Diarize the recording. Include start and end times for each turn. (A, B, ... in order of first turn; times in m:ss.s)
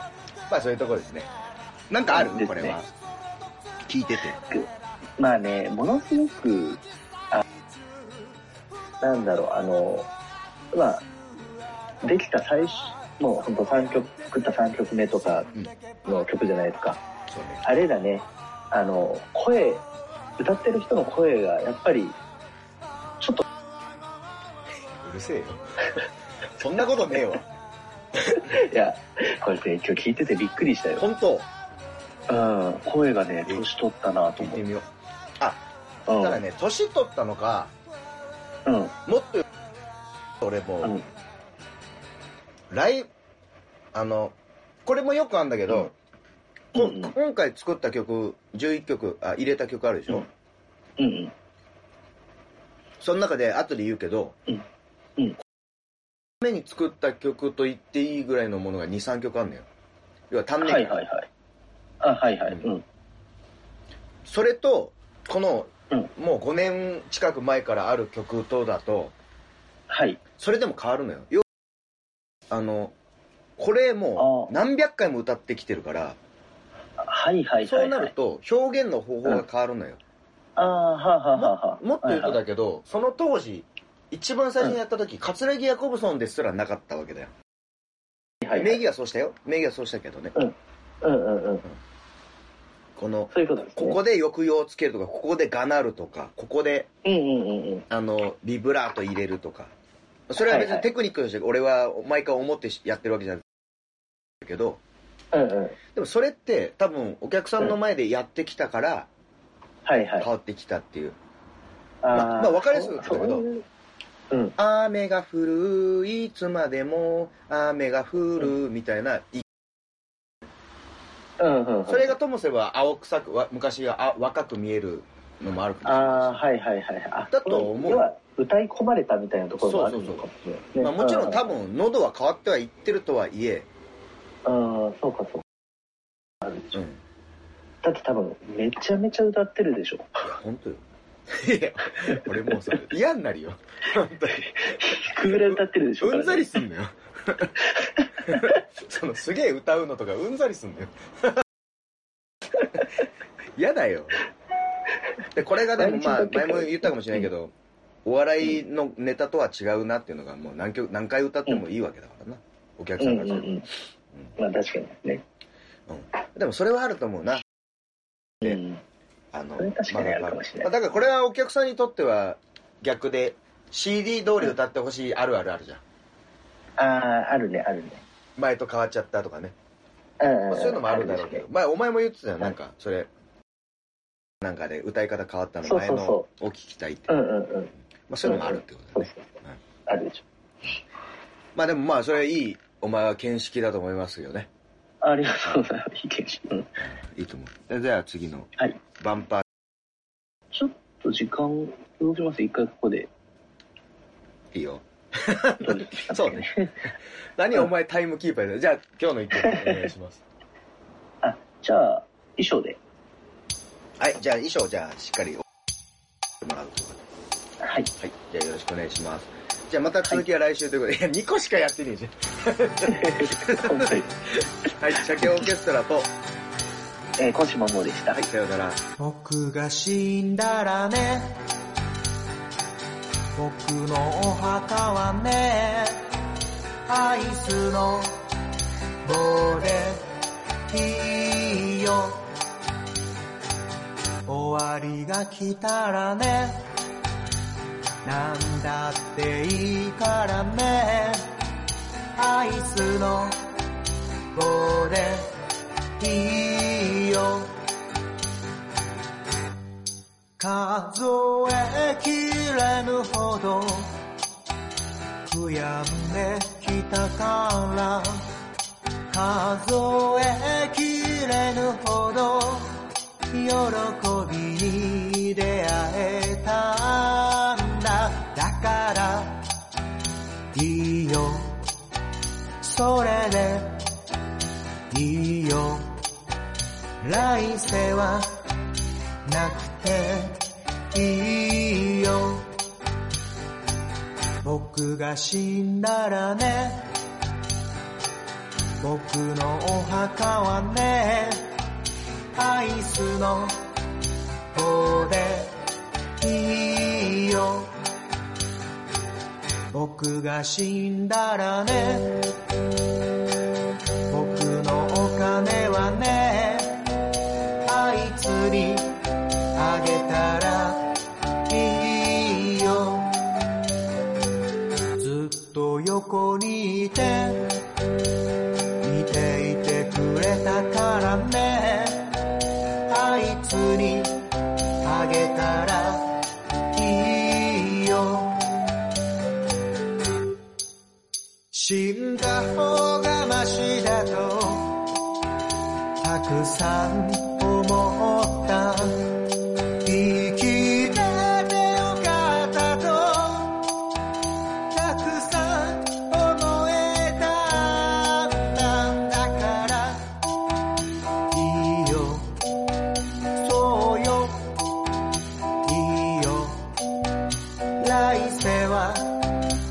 0:00.5-0:01.3 A
0:01.9-0:02.9 A
0:02.1-0:02.8 B
0:03.8-0:04.4 A
0:04.5-0:07.4 B
0:09.0-0:10.1 B
0:10.7-0:11.1 B
0:12.0-0:15.5 B
0:16.0-0:17.0 B
0:17.3-0:17.6 A
0:17.6-0:19.8 B
0:20.4-0:22.2 B
0:25.0-0:25.9 A
0:26.6-0:27.4 A
0:28.3-0:31.0 B
0:31.0-0:31.5 A
0:32.3-0:34.6 B
0:34.4-0:37.7 A
0:36.1-0:36.4 B
0:38.6-0:39.0 B
0:39.0-0:39.4 A
0:40.4-0:41.0 A
0:42.7-0:43.1 A
0:43.9-0:45.9 A
0:46.7-0:50.3 A
0:46.7-0:47.1 B
0:51.0-0:51.3 B
0:53.0-0:54.4 A
0:56.4-0:59.7 A
1:00.3-1:01.0 A
1:00.6-1:01.3 B
1:02.0-1:02.8 B
1:04.2-1:09.1 A
1:09.9-1:10.2 B
1:10.4-1:11.4 A
1:12.5-1:12.9 A
1:13.6-1:16.2 A
1:14.2-1:14.5 B
1:17.0-1:18.1 B
1:17.6-1:20.0 A
1:20.6-1:22.4 B
1:21.3-1:27.3 A
1:28.4-1:30.3 A
1:30.3-1:31.6 B
1:33.0-1:36.9 A
1:33.3-1:34.0 B
1:37.0-1:37.8 B
1:37.9-1:39.7 A
1:40.3-1:43.4 A
1:40.4-1:40.8 B
1:44.4-1:44.8 A
1:45.3-1:45.8 B
1:45.9-1:49.1 A
1:49.8-1:50.3 B
1:50.2-1:51.2 A
1:52.0-1:53.6 B
1:52.1-1:53.4 A
1:54.3-1:54.6 B
1:54.6-1:59.4 A
2:01.4-2:02.1 B
2:01.9-2:06.4 A
2:05.8-2:11.5 B
2:07.3-2:08.1 A
2:09.6-2:10.3 A
2:10.8-2:13.7 A
2:14.4-2:15.4 B
2:16.7-2:17.0 A
2:17.8-2:20.2 B
2:20.2-2:27.6 A
2:24.6-2:26.5 B
2:28.2-2:28.6 B
2:28.2-2:31.4 A
2:33.6-2:34.2 A
2:35.3-2:37.5 A
2:35.7-2:37.2 B
2:38.0-2:43.5 A
2:43.0-2:43.7 B
2:44.4-2:45.2 B
2:45.9-2:47.4 A
2:48.4-2:48.8 B
2:49.3-2:55.8 A
2:49.6-2:50.7 B
2:56.8-2:58.0 B
2:58.4-2:59.5 A
3:00.2-3:01.4 B
3:00.5-3:03.1 A
3:04.4-3:07.1 A
3:05.6-3:06.3 B
3:07.1-3:07.7 B
3:08.1-3:09.6 A
3:08.2-3:09.3 B
3:09.8-3:10.2 B
3:11.5-3:14.5 A
3:15.0-3:16.8 B
3:16.8-3:19.4 A
3:20.5-3:23.1 B
3:24.5-3:26.5 A
3:25.6-3:26.8 B
3:27.4-3:30.2 A
3:31.2-3:32.8 B
3:34.0-3:35.4 A
3:36.4-3:37.0 A
3:37.6-3:37.9 B
3:38.0-3:44.0 A
3:42.9-3:44.1 B
3:44.6-3:46.1 A
3:47.2-3:48.2 B
3:48.1-3:48.8 A
3:49.0-3:51.4 C
3:53.4-3:56.0 C
3:56.9-3:58.2 C
3:59.0-4:00.1 C
4:00.7-4:02.3 C
4:04.3-4:06.6 C
4:08.0-4:11.3 C
4:12.2-4:13.4 C
4:14.3-4:15.3 C
4:16.0-4:17.6 C
4:20.4-4:24.0 C
4:25.2-4:28.3 C
4:29.1-4:39.4 C
4:40.5-4:41.6 C
4:42.6-4:43.8 C
4:44.9-4:46.0 C
4:47.0-4:48.4 C
4:49.2-4:50.4 C
4:50.9-4:52.6 C
4:54.4-4:56.9 C
4:58.8-5:01.5 C
5:02.3-5:03.6 C
5:04.5-5:05.6 C
5:06.2-5:07.8 C
5:09.7-5:12.4 C
5:14.1-5:16.8 C
5:17.6-5:19.0 C
5:19.5-5:20.9 C
5:21.5-5:23.2 C
5:25.0-5:27.6 C
5:28.8-5:32.1 C
5:32.9-5:34.3 C
5:34.8-5:36.2 C
5:36.7-5:38.5 C
5:41.5-5:44.8 C
5:46.0-5:49.2 C
5:49.8-5:53.7 C
5:54.7-6:00.2 C
6:01.3-6:02.4 C
6:03.4-6:04.6 C
6:05.6-6:06.8 C
6:07.8-6:09.5 C